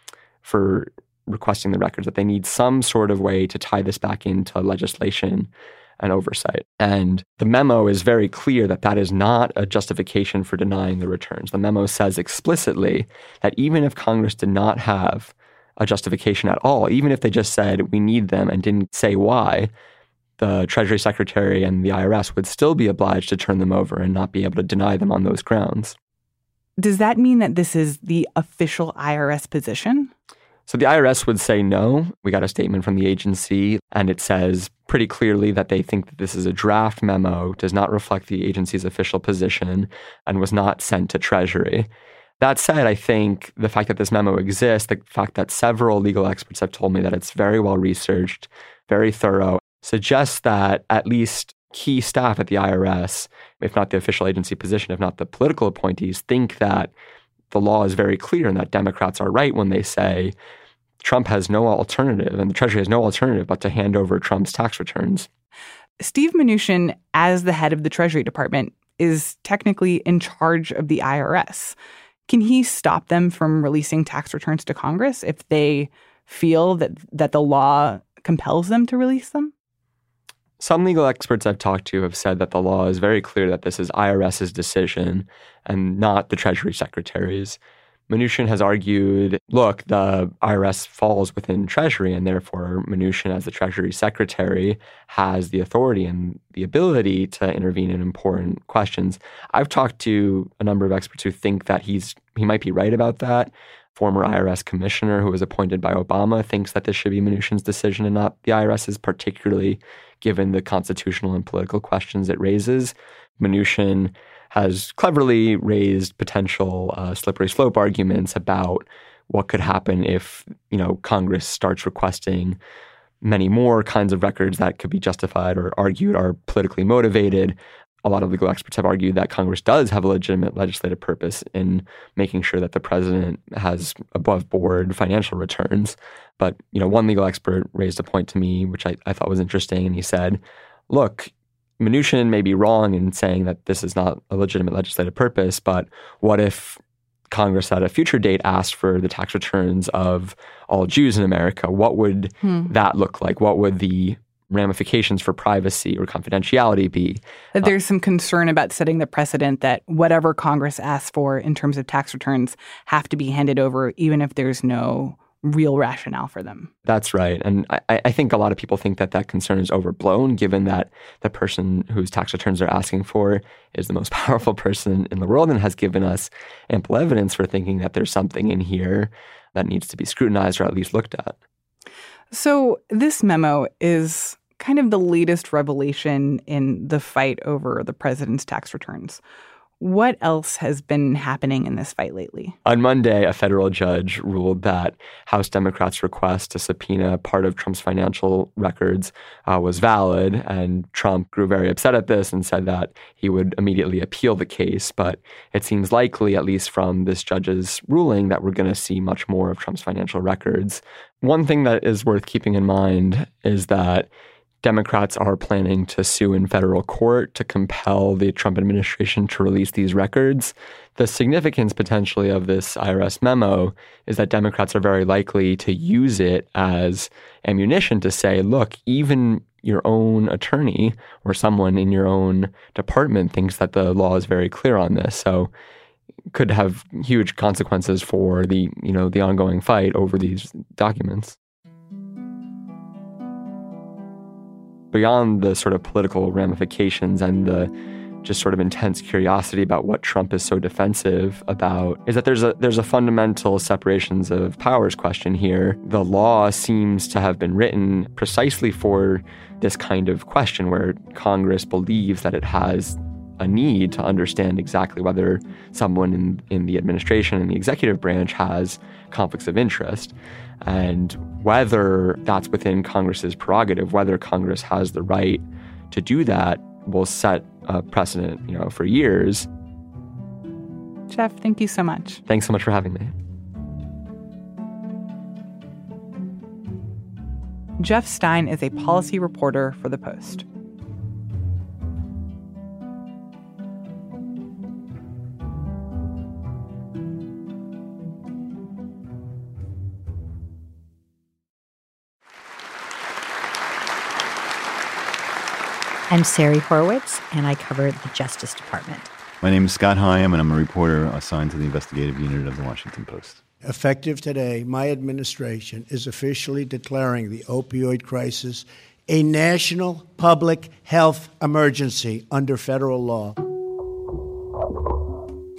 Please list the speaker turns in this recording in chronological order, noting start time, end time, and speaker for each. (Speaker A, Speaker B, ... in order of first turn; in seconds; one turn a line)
Speaker A: 0.4-19.7
Speaker A: 20.4-25.9
Speaker B: 26.8-30.1
Speaker A: 30.7-41.9
Speaker A: 42.4-56.9
Speaker A: 57.5-60.3
Speaker A: 61.0-65.3
Speaker B: 66.0-79.5
Speaker A: 80.6-87.6
Speaker A: 88.1-122.6
Speaker A: 123.2-157.7
Speaker B: 152.4-152.7
Speaker B: 157.5-166.7
Speaker A: 166.8-181.3
Speaker B: 182.3-189.2
Speaker B: 189.8-192.6
Speaker A: 192.6-214.1
Speaker A: 214.6-235.5
Speaker A: 236.3-241.3
Speaker A: 244.9-247.7
Speaker A: 248.2-279.5
Speaker B: 281.1-282.2
Speaker A: 282.3-283.1
Speaker B: 287.8-290.4
Speaker C: 306.1-309.1
Speaker D: 309.4-313.4
Speaker E: 313.6-323.4